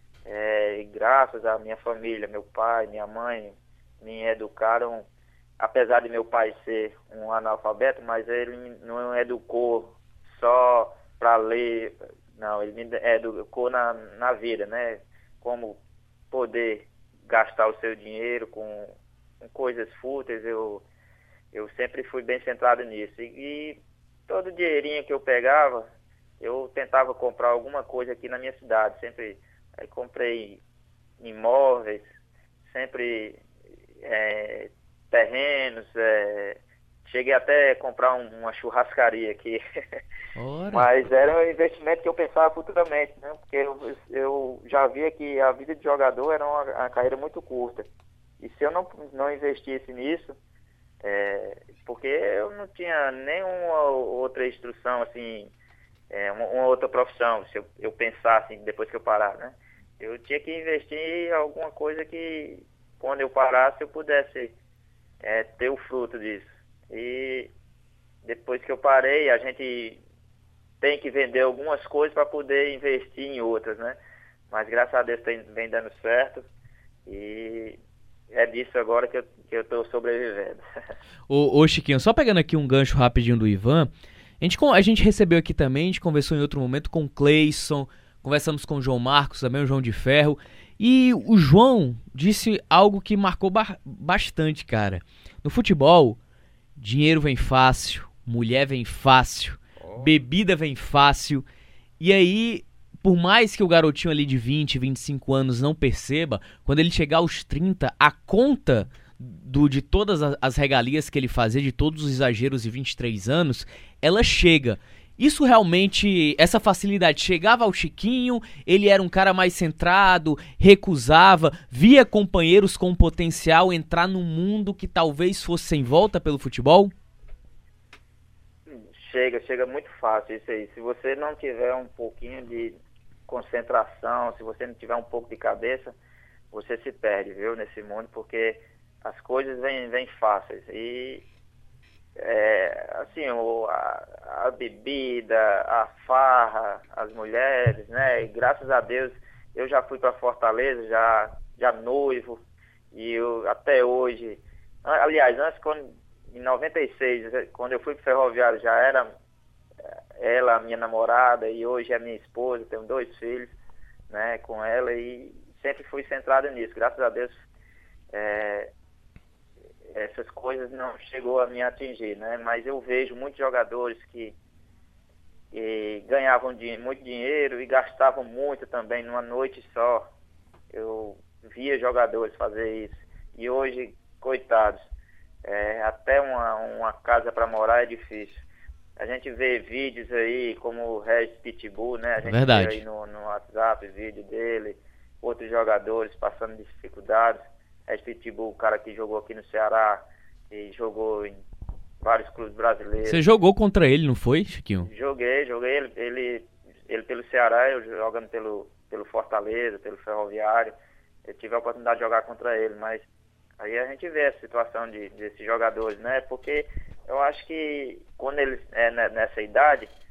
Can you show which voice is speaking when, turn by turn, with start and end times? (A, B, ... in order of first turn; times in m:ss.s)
0:00.2-0:05.1 A
0:05.6-0:15.8 A
0:16.3-0:20.8 A
0:21.5-0:25.8 A
0:26.4-0:30.6 A
0:31.2-0:32.1 A
0:32.7-0:33.4 A
0:34.0-0:39.6 A
0:40.4-0:40.9 B
0:40.7-0:47.8 A
0:48.4-0:50.3 A
0:51.0-0:55.5 A
0:56.1-1:04.5 A
1:05.2-1:07.5 A
1:08.2-1:10.0 A
1:10.8-1:14.0 A
1:14.5-1:16.4 A
1:17.1-1:17.8 A
1:18.3-1:20.6 A
1:21.3-1:36.2 B
1:36.8-1:41.4 B
1:42.0-2:06.9 B
2:08.7-2:12.8 A
2:13.3-2:15.9 A
2:16.5-2:21.2 A
2:22.2-2:32.4 A
2:32.9-2:39.1 A
2:40.2-2:43.5 A
2:44.1-2:47.4 A
2:48.1-2:48.7 A
2:49.9-2:54.3 A
2:55.5-3:00.1 A
3:00.7-3:04.9 A
3:05.4-3:08.4 A
3:09.0-3:21.4 A
3:12.2-3:12.8 B
3:22.0-3:23.2 A
3:23.1-3:24.9 B
3:24.8-3:30.7 A
3:31.3-3:33.0 A
3:33.6-3:39.9 A